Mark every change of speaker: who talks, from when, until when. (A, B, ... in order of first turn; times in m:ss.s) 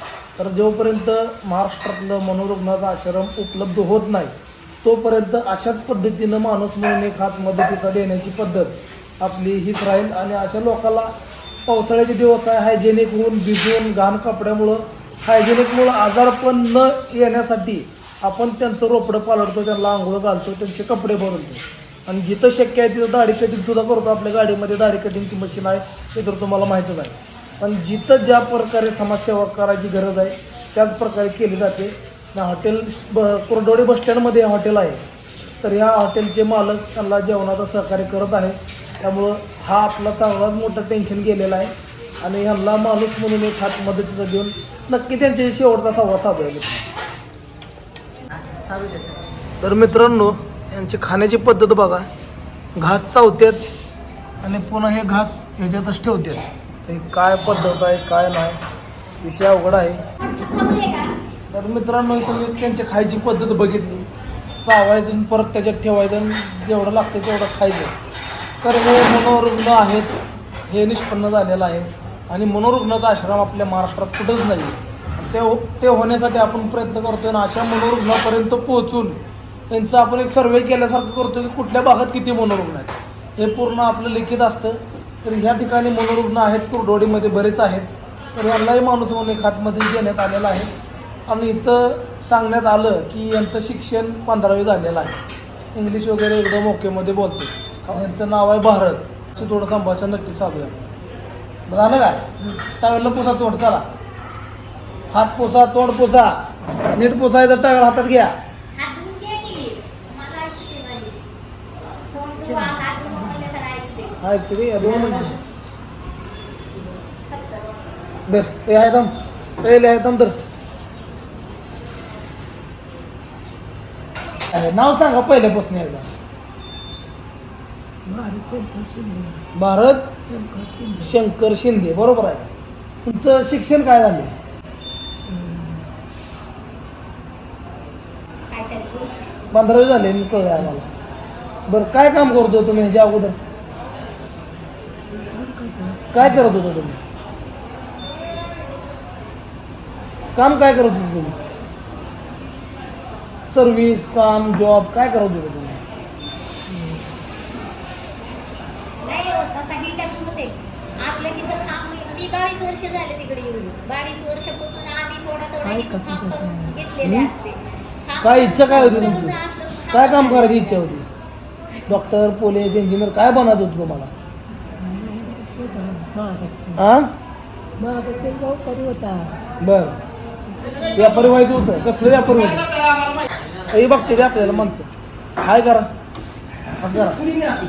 0:00.4-0:11.1 A
0:11.7-0:35.0 A
0:35.6-0:46.9 A
0:49.6-0:52.1 A
0:52.8-0:53.6 A
0:54.4-0:58.6 A
0:59.2-1:00.0 A
1:00.2-1:01.1 B
1:01.5-1:04.0 A
1:04.6-1:08.0 A
1:08.6-1:10.1 A
1:10.7-1:30.7 A
1:31.3-1:35.2 A
1:35.7-1:40.9 A
1:41.7-1:43.8 A
1:42.4-1:42.6 C
1:45.1-1:48.3 A
1:48.7-1:51.2 B
1:52.1-1:54.2 B
1:52.4-1:53.5 C
1:54.2-1:55.4 A
1:54.8-1:55.4 B
1:57.1-1:57.7 B
1:58.3-2:00.3 A
2:04.5-2:06.1 A
2:08.0-2:09.4 C
2:09.5-2:10.1 A
2:10.2-2:11.2 C
2:11.0-2:12.5 A
2:13.0-2:14.3 A
2:15.3-2:15.9 C
2:18.5-2:19.2 B
2:19.5-2:20.9 A
2:21.7-2:23.4 A
2:25.1-2:26.6 C
2:26.1-2:27.0 A
2:30.4-2:31.4 A
2:33.5-2:35.8 A
2:36.6-2:37.2 C
2:39.0-2:50.9 B
2:45.6-2:46.9 C
2:47.0-2:47.3 A
2:48.2-2:49.4 A
2:48.7-2:49.1 C
2:49.9-2:51.1 A
2:51.8-2:54.1 A
2:54.7-2:56.9 C
2:56.8-2:57.1 A
2:57.8-2:59.4 C
2:59.6-3:00.0 A
3:00.9-3:02.7 A
3:03.7-3:05.9 A
3:06.8-3:07.4 A